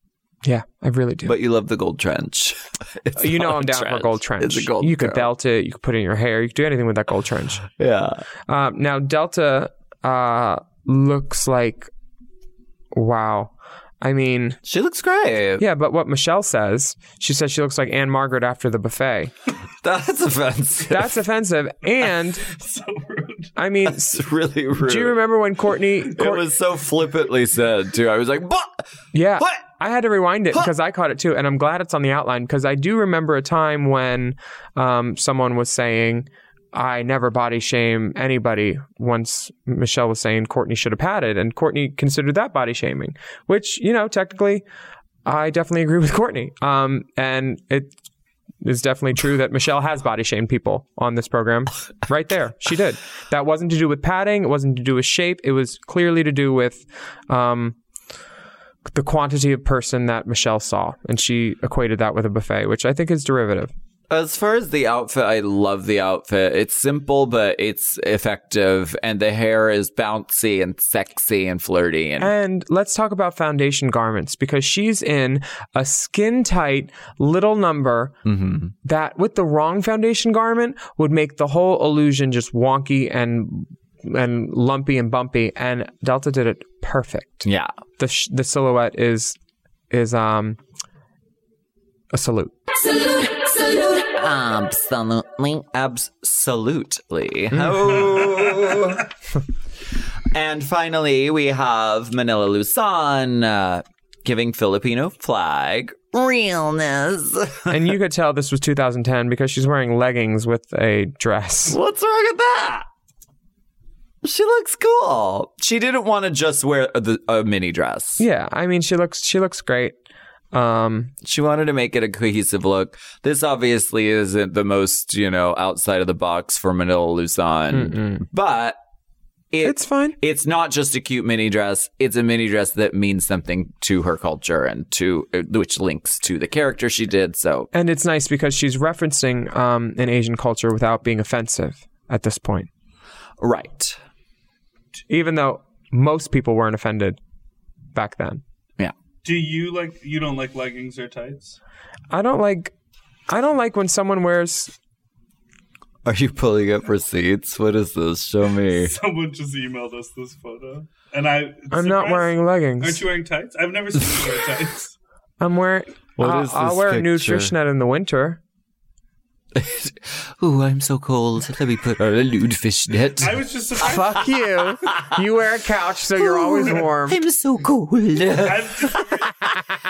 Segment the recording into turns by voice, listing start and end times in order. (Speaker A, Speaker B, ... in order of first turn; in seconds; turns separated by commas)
Speaker A: 0.4-1.4, Speaker B: 1.2-5.3, Speaker A: 3.2-7.7, Speaker B: 7.8-8.2, Speaker A: 8.5-11.9, Speaker A: 12.9-14.6, Speaker B: 14.7-15.7, Speaker A: 15.6-19.3, Speaker B: 19.8-21.1, Speaker A: 20.9-22.5, Speaker C: 22.4-23.5, Speaker A: 23.6-24.2, Speaker B: 23.8-25.2, Speaker A: 24.8-26.5, Speaker B: 26.1-28.9, Speaker A: 29.1-44.6, Speaker A: 45.3-47.9, Speaker A: 48.6-57.8, Speaker A: 58.9-63.7, Speaker B: 64.1-72.3, Speaker A: 72.2-78.1, Speaker B: 78.2-78.7, Speaker A: 78.8-87.5, Speaker B: 87.4-87.7, Speaker A: 88.0-89.4, Speaker A: 89.9-90.6, Speaker A: 92.1-92.5, Speaker B: 94.1-99.1, Speaker B: 100.3-107.9, Speaker A: 107.7-111.8, Speaker B: 111.7-112.9, Speaker B: 114.2-118.2, Speaker A: 118.2-120.0, Speaker A: 120.5-121.1, Speaker B: 121.2-128.8, Speaker A: 127.7-128.2, Speaker B: 129.5-137.7, Speaker A: 129.6-130.2, Speaker A: 137.7-142.7, Speaker B: 143.4-144.0, Speaker A: 145.1-147.2, Speaker A: 147.9-148.4, Speaker C: 149.2-151.6, Speaker A: 152.1-152.7, Speaker A: 153.3-154.7, Speaker B: 156.1-158.9, Speaker C: 158.8-164.9, Speaker A: 161.7-163.1, Speaker A: 165.4-168.4, Speaker B: 166.2-167.5, Speaker B: 169.6-173.4, Speaker C: 173.2-174.3, Speaker A: 173.8-177.2, Speaker B: 176.2-179.1, Speaker C: 178.4-179.3